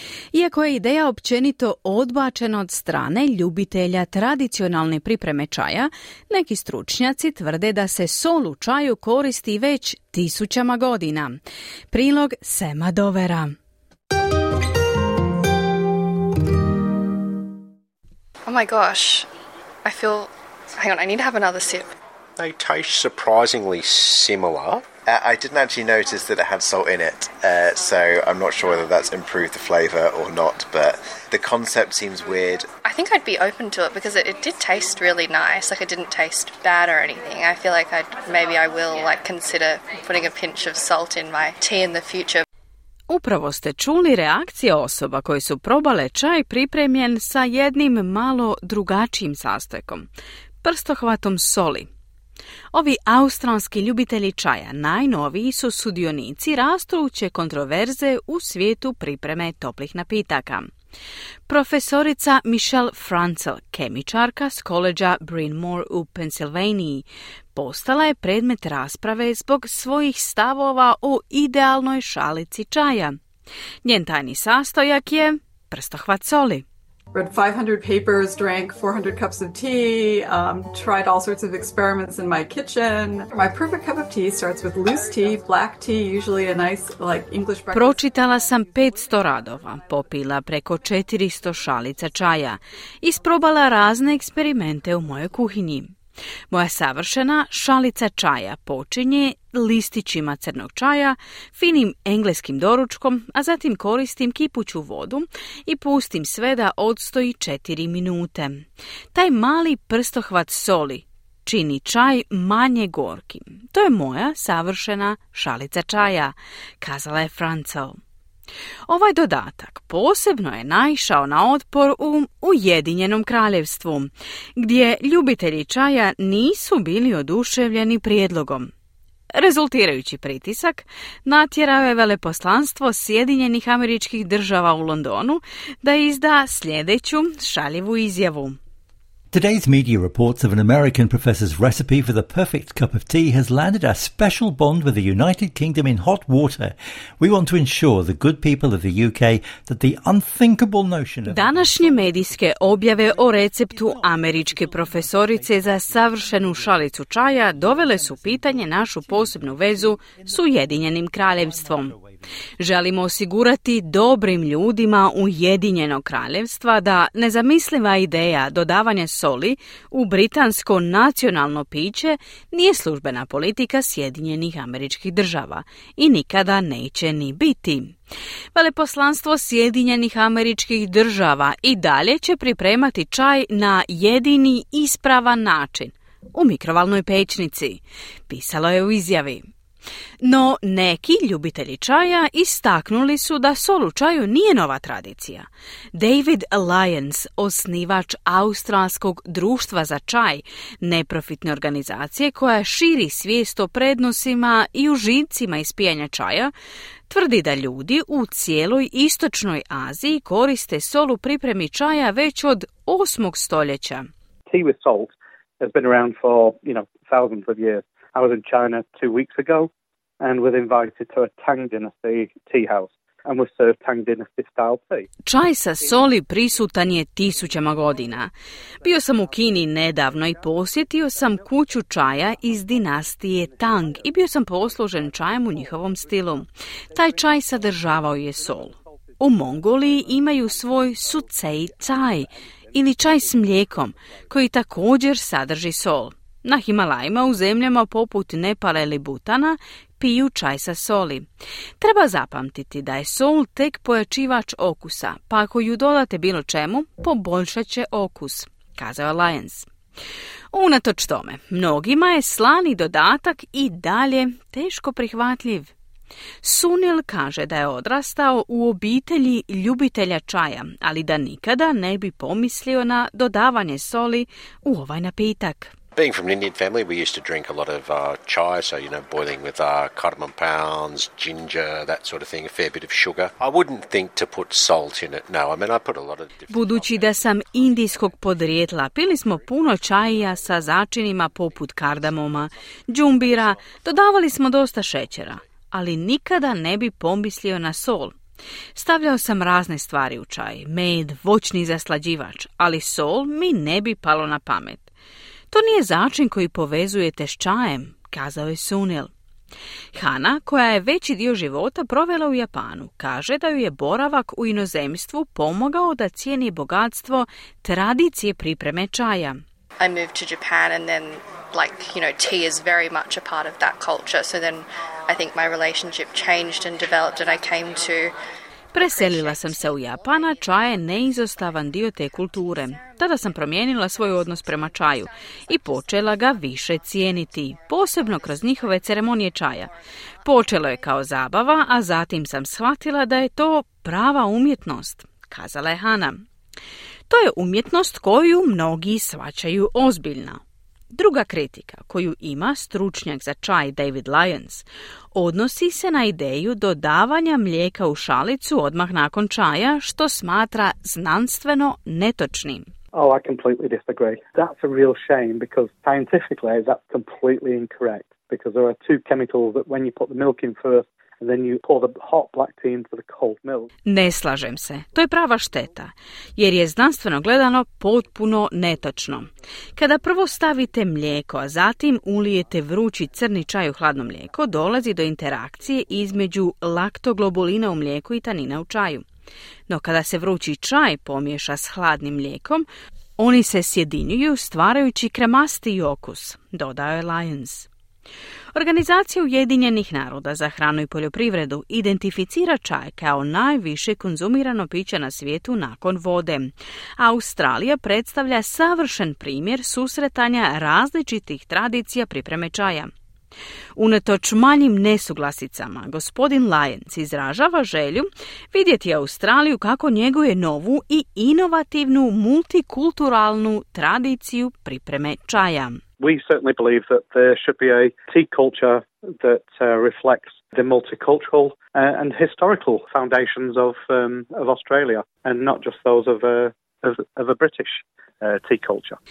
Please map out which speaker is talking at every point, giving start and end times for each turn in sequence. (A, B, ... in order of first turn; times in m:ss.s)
0:00.3-0:11.4 A
0:11.9-0:13.5 A
0:18.4-0:19.3 B
0:19.8-0:21.9 B
0:22.4-0:32.7 C
0:32.8-0:42.4 B
0:43.1-0:50.1 A
0:50.6-0:51.9 A
0:52.7-1:00.7 A
1:01.5-1:13.2 A
1:13.8-1:16.6 A
1:17.1-1:28.0 D
1:27.7-1:35.9 A
1:36.5-1:58.0 A
1:58.9-2:08.7 A
2:09.3-2:18.6 A
2:19.3-2:31.6 E
2:31.3-2:41.9 A
2:42.6-2:58.0 A
2:58.5-3:09.4 A
3:10.2-3:26.5 A
3:27.1-3:34.1 A
3:34.5-3:45.1 F
3:45.2-3:48.3 A
3:48.8-4:11.3 A
4:11.8-4:19.7 A
4:20.5-4:25.7 A
4:26.4-4:35.7 A
4:36.0-4:46.7 C
4:46.5-4:58.2 A
4:58.8-5:04.9 A
5:05.5-5:09.1 A
5:09.9-5:19.4 A
5:19.8-5:28.2 B
5:28.7-5:39.7 A
5:28.9-5:29.5 B
5:40.2-5:46.2 A
5:47.1-5:50.4 A
5:50.9-6:02.7 A
6:02.9-6:13.7 F
6:13.8-6:29.0 A
6:29.7-6:32.6 A
6:33.2-6:37.7 A
6:38.5-6:52.9 A
6:53.8-7:05.8 A
7:06.0-7:19.0 F